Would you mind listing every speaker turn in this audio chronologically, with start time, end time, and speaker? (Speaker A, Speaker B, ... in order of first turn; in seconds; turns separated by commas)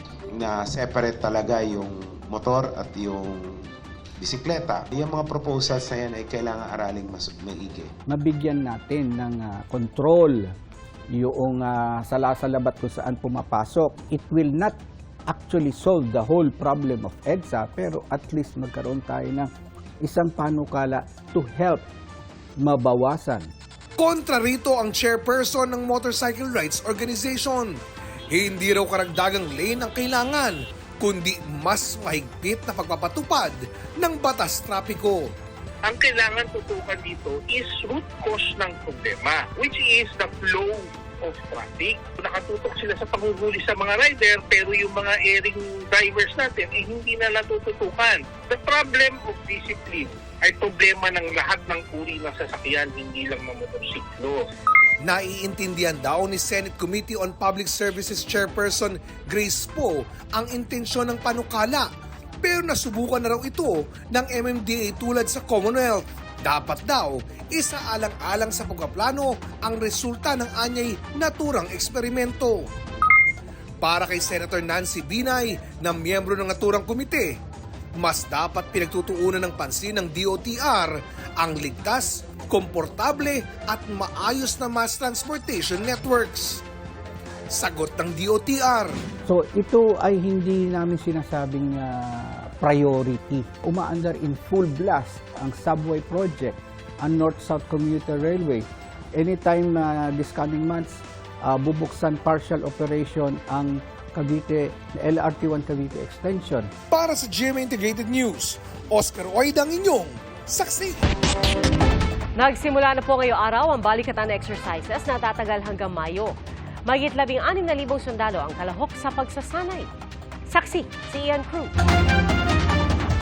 Speaker A: 0.3-3.6, Speaker A: 4.2-7.9, Speaker B: 8.1-10.5, Speaker B: 11.1-14.8, Speaker B: 15.3-19.5, Speaker B: 20.0-21.8, Speaker B: 22.6-23.5, Speaker C: 24.0-27.8, Speaker C: 28.3-35.2, Speaker D: 35.8-54.5, Speaker C: 55.0-61.9, Speaker C: 62.4-72.7, Speaker C: 73.8-77.3, Speaker C: 78.0-86.6, Speaker C: 87.5-88.9, Speaker B: 89.3-106.7, Speaker C: 106.9-111.0, Speaker E: 112.4-116.3, Speaker E: 116.9-119.9, Speaker E: 120.5-121.7